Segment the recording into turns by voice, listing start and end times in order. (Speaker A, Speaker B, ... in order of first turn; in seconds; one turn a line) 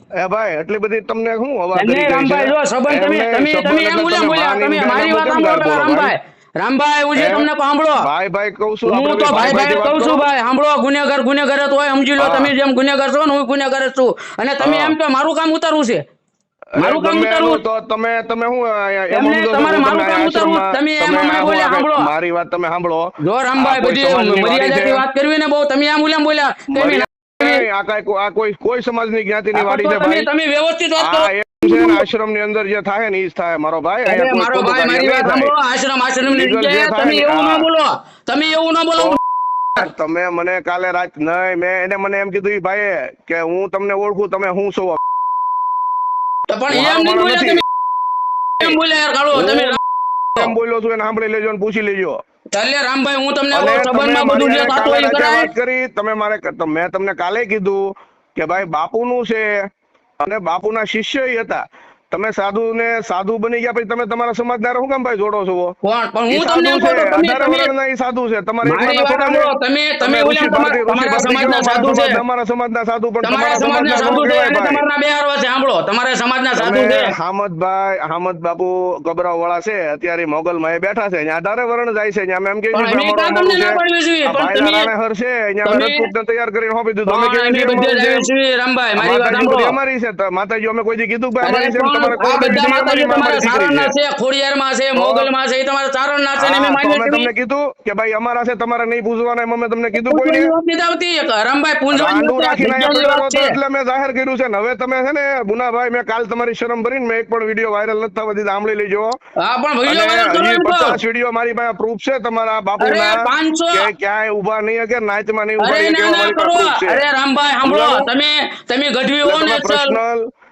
Speaker A: 0.2-6.1
Speaker B: 1.8-8.1
Speaker A: 7.2-7.5
Speaker A: 8.0-10.3
Speaker B: 8.9-16.0
Speaker A: 12.2-12.5
Speaker A: 14.6-14.9
Speaker A: 16.8-25.1
Speaker B: 16.8-17.6
Speaker B: 19.1-22.1
Speaker B: 23.2-27.6
Speaker A: 26.7-30.3
Speaker B: 29.5-32.0
Speaker A: 31.0-35.5
Speaker B: 34.1-39.2
Speaker A: 36.3-37.7
Speaker A: 39.8-45.0
Speaker B: 46.5-47.6
Speaker A: 46.7-47.6
Speaker B: 48.6-49.8
Speaker A: 49.3-49.8
Speaker A: 50.4-52.2
Speaker B: 52.5-55.5
Speaker A: 53.5-57.9
Speaker A: 58.4-59.5
Speaker A: 60.2-65.8
Speaker B: 65.8-67.7
Speaker A: 66.3-74.8
Speaker B: 68.6-72.2
Speaker B: 73.2-77.1
Speaker A: 76.6-88.3
Speaker B: 82.7-84.9
Speaker B: 85.7-86.1
Speaker B: 87.1-89.8
Speaker A: 89.0-93.9
Speaker B: 91.4-97.3
Speaker A: 95.0-95.3
Speaker A: 96.4-100.5
Speaker B: 100.0-103.6
Speaker A: 101.9-109.2
Speaker B: 109.4-111.0
Speaker A: 109.9-117.0
Speaker B: 112.8-113.9
Speaker B: 115.6-120.0
Speaker A: 117.6-118.1
Speaker A: 119.2-120.2